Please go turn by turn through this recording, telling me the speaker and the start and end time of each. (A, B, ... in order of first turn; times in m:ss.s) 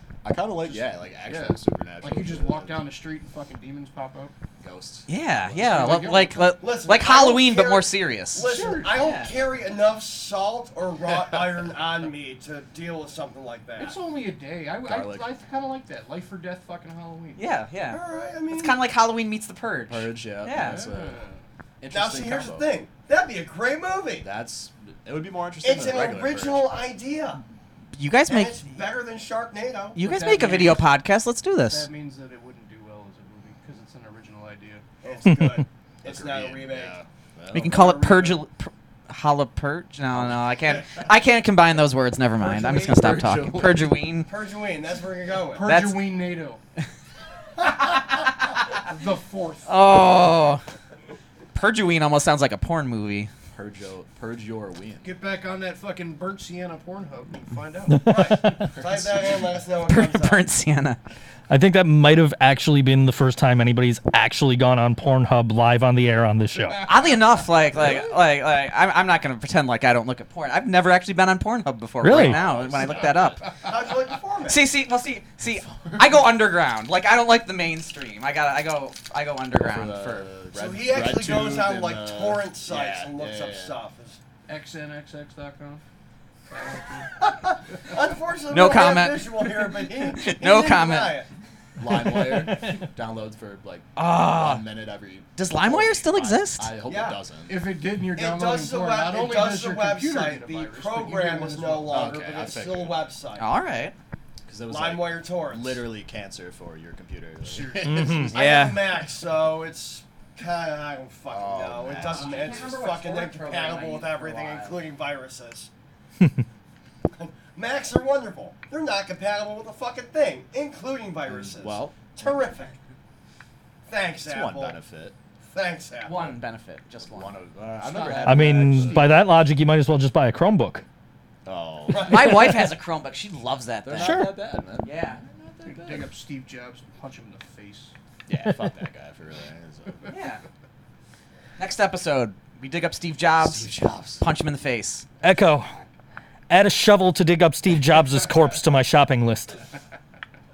0:00.2-0:02.9 A
0:00.6-0:04.3 B
0:04.6-0:06.3 A
0:05.1-0:09.2 C
0:05.6-0:06.6 B
0:06.6-0:14.0 D
0:08.4-0:09.0 B
0:13.8-0:17.5 B
0:14.8-0:15.3 A
0:17.4-0:20.8 C
0:17.9-0:18.8 D
0:19.9-0:21.2 A
0:20.5-0:21.4 B
0:21.8-0:22.7 A
0:21.9-0:24.3 D
0:24.2-0:26.7 A
0:25.6-0:27.4 D
0:27.9-0:28.6 C
0:28.3-0:30.0 D
0:29.9-0:31.9 C
0:30.0-0:30.9 B
0:31.7-0:34.8 B
0:35.0-0:37.0 D
0:36.0-0:37.9 A
0:37.5-0:44.3 C
0:37.6-0:38.4 D
0:40.1-0:40.4 A
0:42.4-0:44.0 A
0:42.5-0:43.0 D
0:44.2-0:45.7 D
0:45.5-0:46.6 B
0:45.6-0:46.0 C
0:48.8-0:50.0 B
0:49.6-0:50.6 C
0:51.5-0:53.3 C
0:53.5-0:55.1 A
0:55.0-0:58.2 B
0:57.9-0:58.6 E
0:58.0-1:00.4 D
0:58.8-0:59.4 A
0:59.8-1:01.0 C
1:01.5-1:06.9 E
1:06.8-1:13.4 C
1:12.0-1:12.4 E
1:12.0-1:13.5 A
1:13.6-1:14.7 D
1:14.5-1:20.3 C
1:15.6-1:16.3 A
1:19.6-1:23.8 A
1:20.5-1:24.2 D
1:24.5-1:25.8 B
1:26.5-1:27.2 B
1:27.2-1:31.3 D
1:28.5-1:31.2 C
1:31.8-1:37.7 A
1:34.0-1:34.6 C
1:35.3-1:36.7 C
1:36.8-1:37.2 D
1:37.4-1:42.1 B
1:38.1-1:43.5 D
1:41.9-1:43.1 A
1:43.4-1:43.9 C
1:44.4-1:48.4 A
1:44.7-1:45.9 D
1:47.4-1:48.3 B
1:47.8-1:48.3 E
1:48.3-1:55.7 D
1:48.3-1:48.9 C
1:51.3-1:52.8 A
1:51.9-1:54.8 C
1:57.1-2:02.8 D
2:01.3-2:02.5 A
2:03.9-2:04.8 D
2:04.2-2:05.1 A
2:05.5-2:06.3 D
2:06.0-2:07.4 C
2:07.0-2:09.3 A
2:07.8-2:09.1 B
2:08.2-2:10.8 E
2:11.4-2:12.5 A
2:11.9-2:12.4 D
2:12.0-2:14.2 C
2:13.8-2:16.2 A
2:14.0-2:14.3 E
2:14.8-2:15.2 C
2:15.6-2:17.9 B
2:18.3-2:20.1 A
2:20.1-2:20.4 C
2:21.6-2:25.0 C
2:23.4-2:24.3 A
2:25.2-2:25.7 E
2:26.5-2:29.6 E